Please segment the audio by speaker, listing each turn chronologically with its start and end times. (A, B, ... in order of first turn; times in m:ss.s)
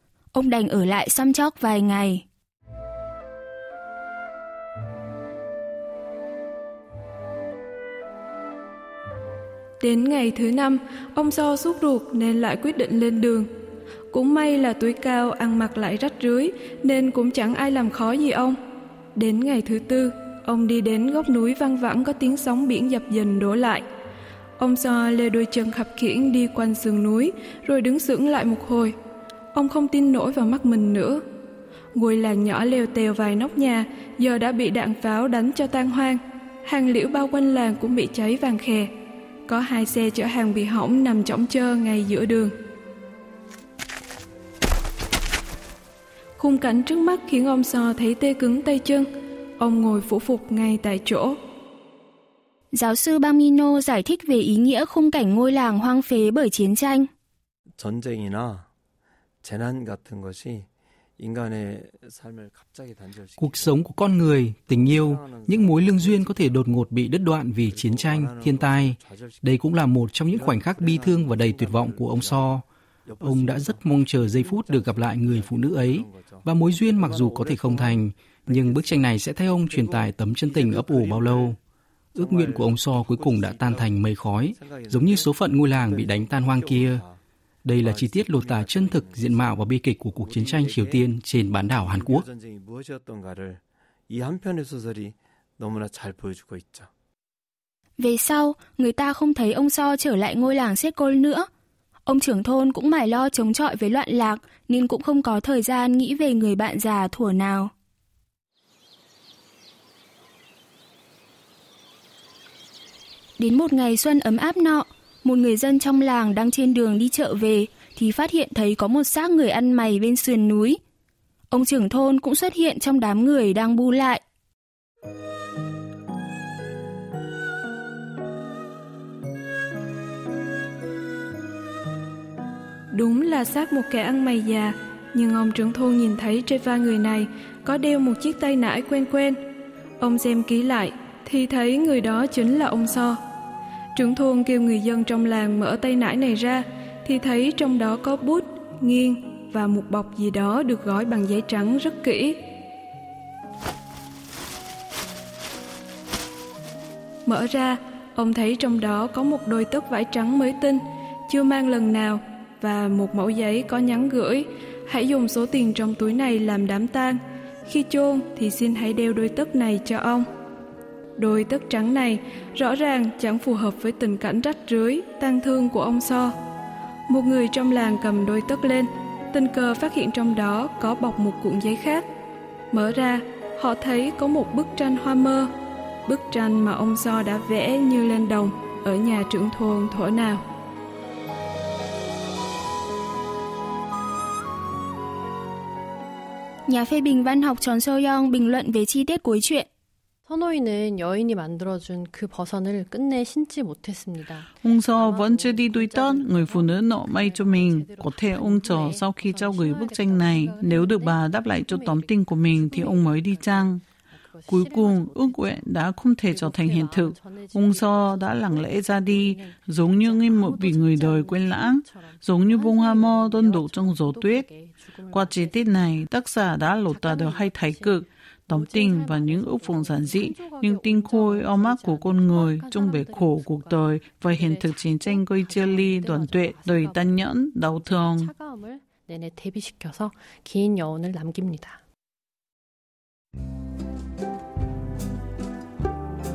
0:00.3-0:02.2 A
0:09.8-0:13.5 B
0:14.1-0:18.6 B
0:19.2-0:23.8 B
0:24.6-0:28.9 B
0:29.5-0:31.2 B
0:32.0-0:38.9 B
0:39.5-0:42.5 B
0:46.4-0:49.1 B
0:49.6-0:51.4 B
0:52.7-0:57.1 A
0:57.8-0:58.7 C
0:59.4-1:00.7 C
1:01.2-1:21.6 C
1:03.4-1:12.6 D
1:13.2-1:21.6 D
1:22.1-1:27.0 D
1:22.1-1:27.2 C
1:27.6-1:32.3 D
1:27.8-1:36.9 C
1:38.0-1:41.5 A
1:42.1-1:47.7 A
1:53.4-2:00.8 A
2:01.5-2:04.2 A
2:12.9-2:19.4 B
2:20.0-2:23.2 B
2:24.0-2:32.4 B
2:37.3-2:50.3 B
2:51.2-2:56.3 B
2:57.1-3:02.0 B
3:02.7-3:05.5 B
3:06.1-3:10.4 B
3:16.7-3:19.7 A
3:20.3-3:35.6 E
3:24.6-3:33.8 F
3:34.5-3:44.5 F
3:36.3-3:45.7 E
3:45.1-3:58.3 F
3:46.9-3:57.3 E
3:57.8-4:01.8 E